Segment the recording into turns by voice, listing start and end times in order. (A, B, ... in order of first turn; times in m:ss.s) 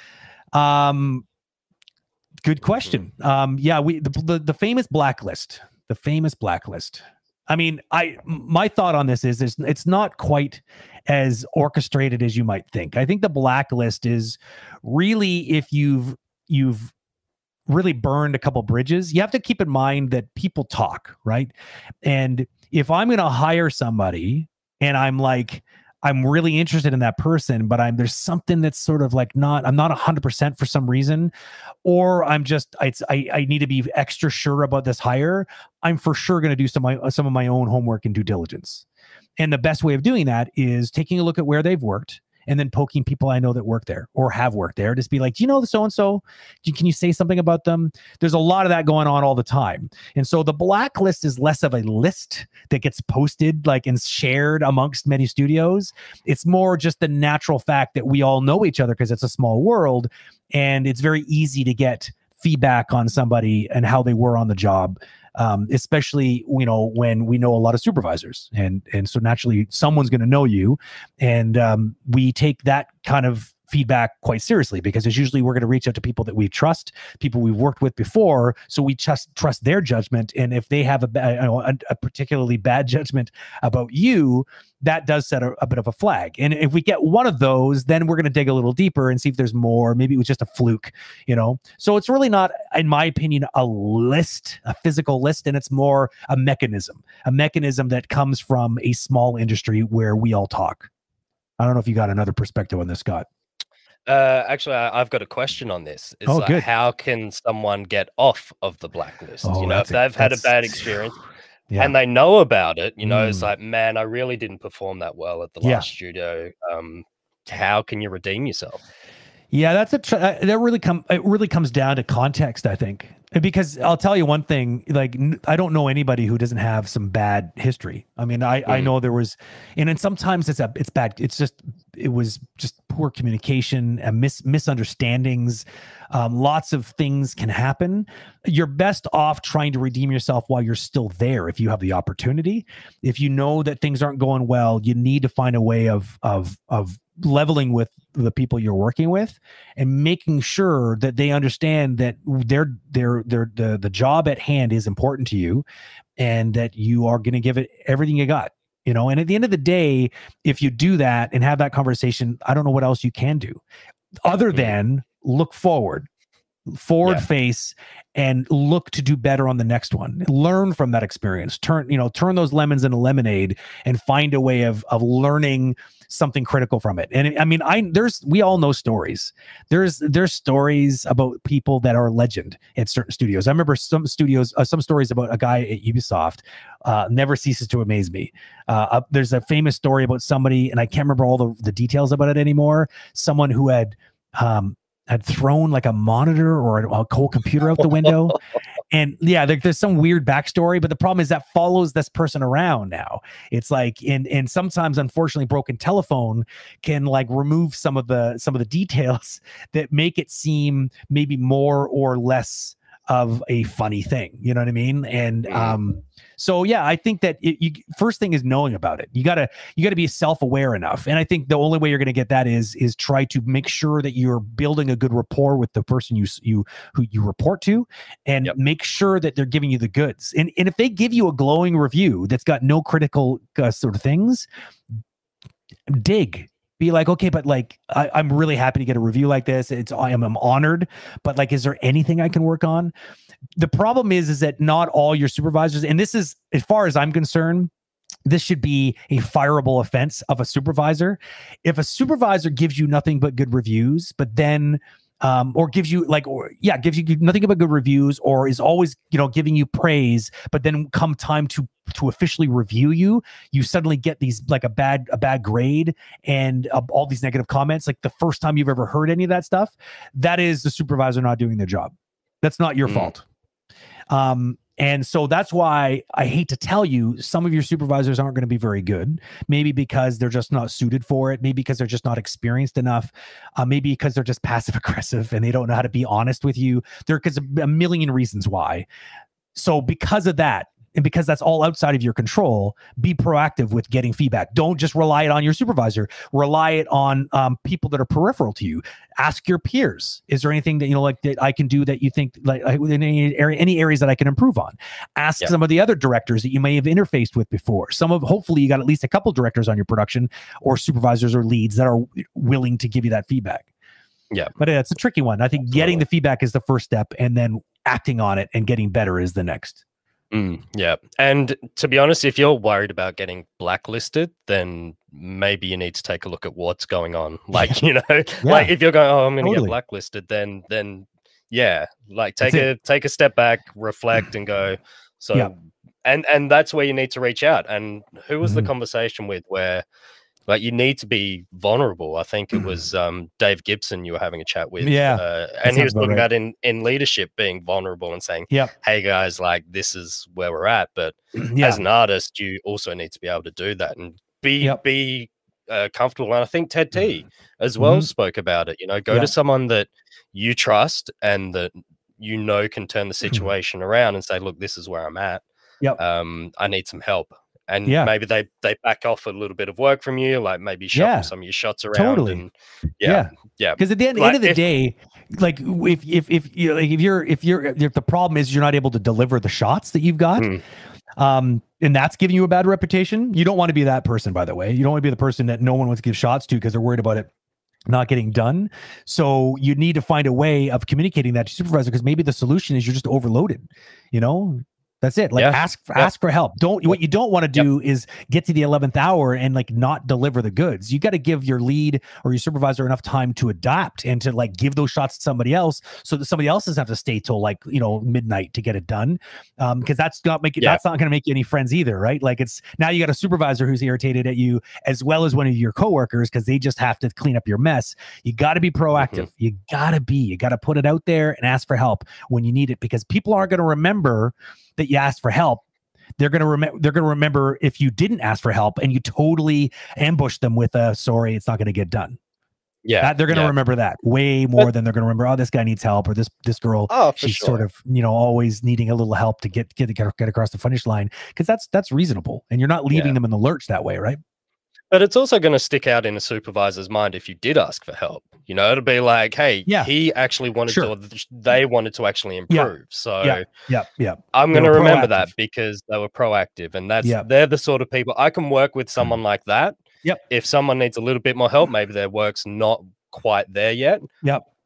0:00.5-0:01.2 A
0:02.4-0:16.9 A
0:17.7-0:21.5 A
0:22.0-0:31.3 A
0:31.8-0:38.9 A
0:39.4-1:40.9 A
1:41.6-1:43.3 A
1:44.1-1:51.2 B
1:46.2-1:46.7 A
1:49.4-1:50.9 A
1:51.7-1:52.0 A
1:51.8-1:58.8 B
1:53.0-1:53.5 A
1:55.6-1:55.9 A
1:59.5-2:35.6 A
2:08.7-2:08.9 B
2:36.2-2:43.6 A
2:44.3-2:46.1 A
2:46.7-3:54.5 A
3:35.5-3:35.8 B
3:55.9-4:02.9 A
4:03.6-4:07.7 A
4:08.3-4:33.2 A
4:32.9-4:33.2 B
4:34.1-4:48.9 A
4:49.5-5:13.7 A
5:14.6-5:19.8 A
5:15.7-5:16.0 B
5:20.3-5:35.5 B
5:28.4-5:28.7 A
5:29.4-5:29.8 A
5:32.4-5:32.7 A
5:36.0-5:39.8 B
5:38.4-5:38.7 A
5:40.5-6:05.4 B
5:44.8-5:46.3 A
5:51.4-5:51.8 A
5:57.8-5:58.1 A
6:06.0-6:14.7 B
6:07.9-6:08.1 A
6:10.9-6:11.3 A
6:11.9-6:12.4 A
6:13.0-6:20.5 A
6:20.4-6:20.6 B
6:21.2-6:27.3 A
6:27.9-7:05.6 A
6:35.4-6:36.1 B
6:58.9-6:59.3 B
7:06.2-7:12.2 A
7:12.8-7:13.5 B
7:13.0-7:24.2 A
7:16.9-7:17.6 B
7:24.9-7:33.5 B
7:29.7-7:29.9 A
7:30.7-7:30.9 A
7:32.5-7:35.3 A
7:34.3-7:39.8 B
7:40.3-7:44.0 B